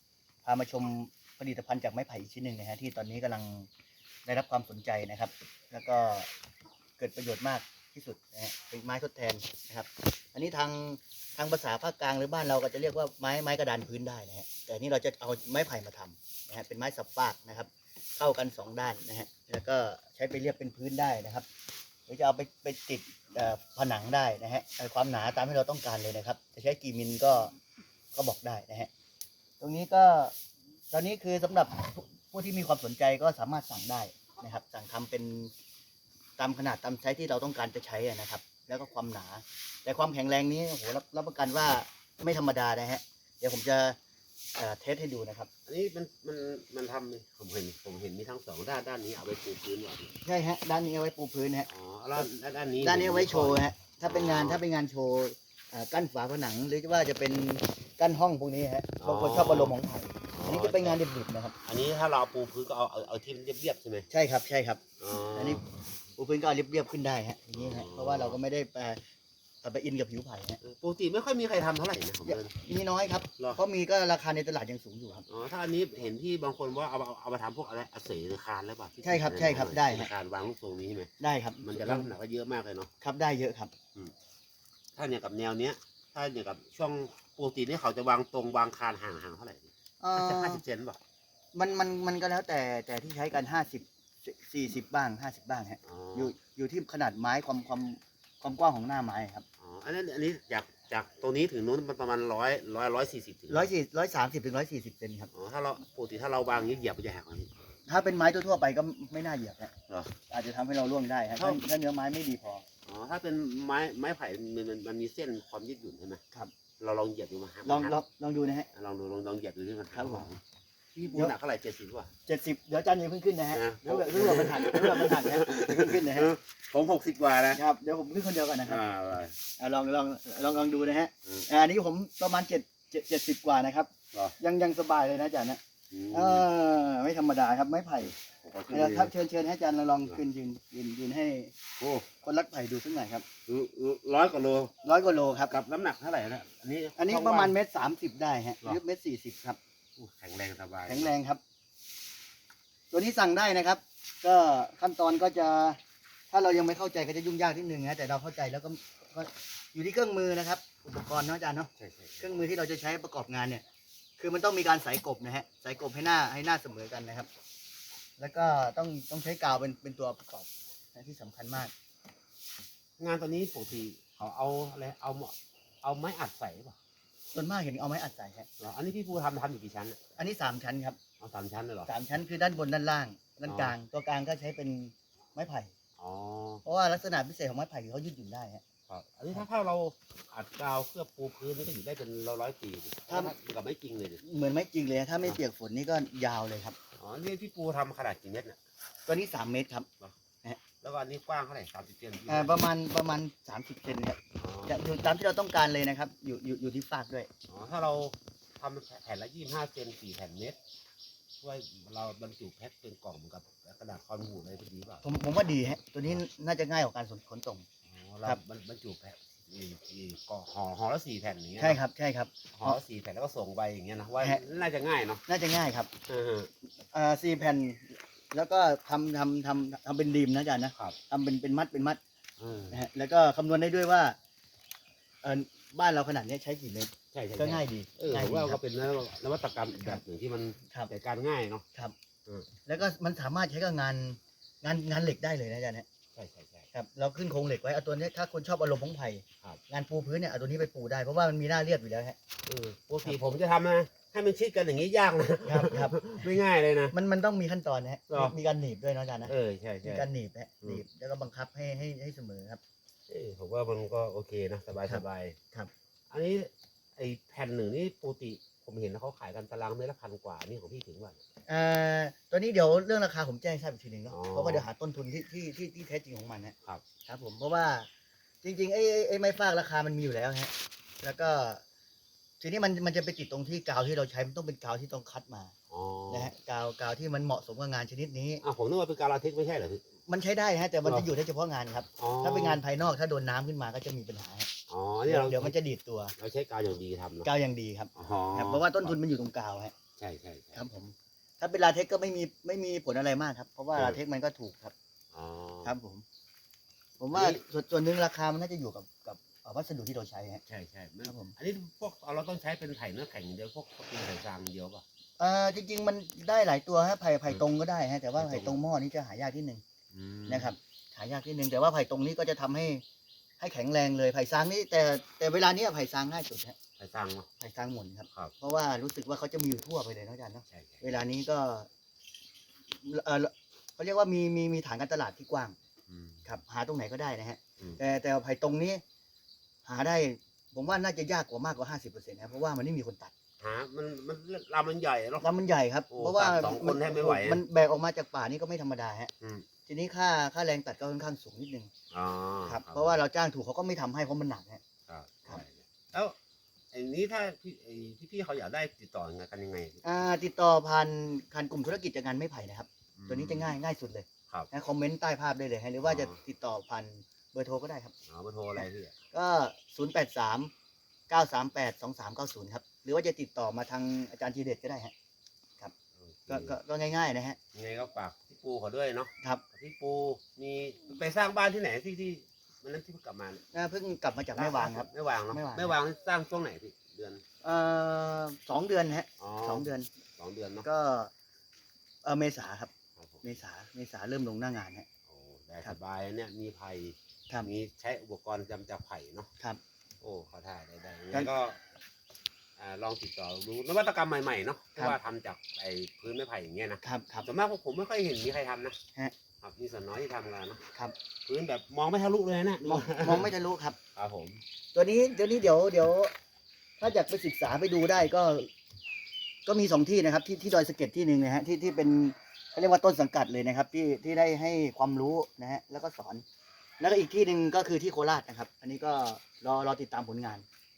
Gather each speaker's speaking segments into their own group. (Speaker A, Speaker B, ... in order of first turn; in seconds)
Speaker A: 0.5-3.7, 4.3-6.3, 7.0-21.5, 22.1-27.5, 28.1-28.9, 29.6-30.3, 30.9-35.5, 36.4-44.0, 44.5-45.5, 50.2-52.3, 52.8-61.5, 64.1-65.6, 66.2-69.0, 69.6-70.6, 72.3-75.3, 79.0-80.1, 81.2-82.1, 83.0-83.7, 90.0-90.6, 91.5-99.5, 103.5-105.3, 107.9-109.7, 110.3-112.7, 117.7-118.7, 119.9-120.3, 121.0-121.3, 122.3-126.3, 127.5-128.8, 129.6-135.6, 136.1-138.1, 138.7-141.5, 142.2-143.2, 144.8-145.5, 147.0-149.6, 150.9-151.4, 152.9-155.8, 156.3-163.6, 164.2-167.3, 168.2-171.7, 177.3-178.5, 180.2-181.0, 181.9-185.7, 186.7-188.6, 193.1-193.3, 194.2-196.8, 199.1-199.9, 202.3-207.3, 215.0-217.7, 221.6-222.8, 225.3-225.9, 226.9-232.0, 232.7-234.2, 235.2-238.6, 242.7-245.9, 246.7-252.2, 255.5-256.3, 256.9-259.3, 259.8-262.6, 264.9-265.7, 271.5-276.6, 277.1-277.9, 278.4-281.6, 282.4-285.5, 286.1-288.4, 290.1-294.5, 295.1-296.1, 297.2-299.7, 300.5-304.7, 305.6-306.0, 307.0-310.4, 311.1-311.3, 315.2-319.6, 320.3-322.8, 323.4-326.6, 327.4-331.7, 332.7-335.6, 336.3-338.8, 339.7-343.1, 345.2-349.1, 349.7-351.7, 352.5-354.6, 359.8-367.9, 368.6-370.5, 371.1-374.9, 376.3-377.4, 383.5-385.8, 387.4-389.9, 390.6-391.1, 392.0-392.7, 393.2-394.9, 406.8-407.3, 412.6-413.8, 414.7-416.1, 416.8-418.5, 419.5-426.2, 426.8-430.4
Speaker B: 45.7-50.1, 51.7-54.6, 59.0-59.8, 60.3-61.0, 61.6-64.1, 65.0-65.6, 67.5-68.4, 70.6-72.5, 75.3-81.1, 81.6-82.9, 85.0-91.0, 95.8-96.3, 99.6-103.7, 105.3-107.5, 109.9-110.1, 111.4-111.6, 112.9-116.2, 116.8-118.0, 118.7-120.4, 121.0-122.1, 123.5-127.6, 128.6-129.3, 135.9-136.5, 138.2-139.1, 141.8-142.1, 143.5-144.7, 145.5-147.6, 150.0-151.1, 161.8-162.3, 173.0-176.8, 178.6-180.0, 181.2-181.9, 183.4-183.8, 186.0-186.6, 188.9-194.2, 196.9-198.6, 200.8-202.6, 204.4-204.8, 207.5-210.6, 211.4-215.0, 217.9-221.8, 222.5-225.2, 226.1-226.5, 232.4-232.8, 237.1-241.6, 246.2-246.7, 252.5-256.9, 258.1-258.4, 259.2-260.1, 263.1-265.4, 266.1-271.2, 274.1-274.7, 285.7-286.3, 288.4-289.8, 292.0-292.6, 294.7-295.6, 296.2-297.3, 297.9-299.0, 300.0-300.6, 303.7-304.0, 305.1-305.7, 307.1-307.4, 310.5-314.8, 318.1-318.6, 319.9-320.5, 326.8-327.3, 330.5-330.8, 335.9-336.2, 343.4-345.3, 345.9-347.4, 349.2-349.5, 351.9-353.0, 354.9-356.2, 356.7-359.8, 363.0-363.5, 365.8-366.2, 368.1-368.9, 376.0-376.6, 377.5-383.4, 384.3-387.2, 389.2-390.7, 393.0-393.2, 395.1-399.3, 400.0-401.6, 402.6-408.8, 409.4-410.6, 411.3-413.3, 414.0-414.4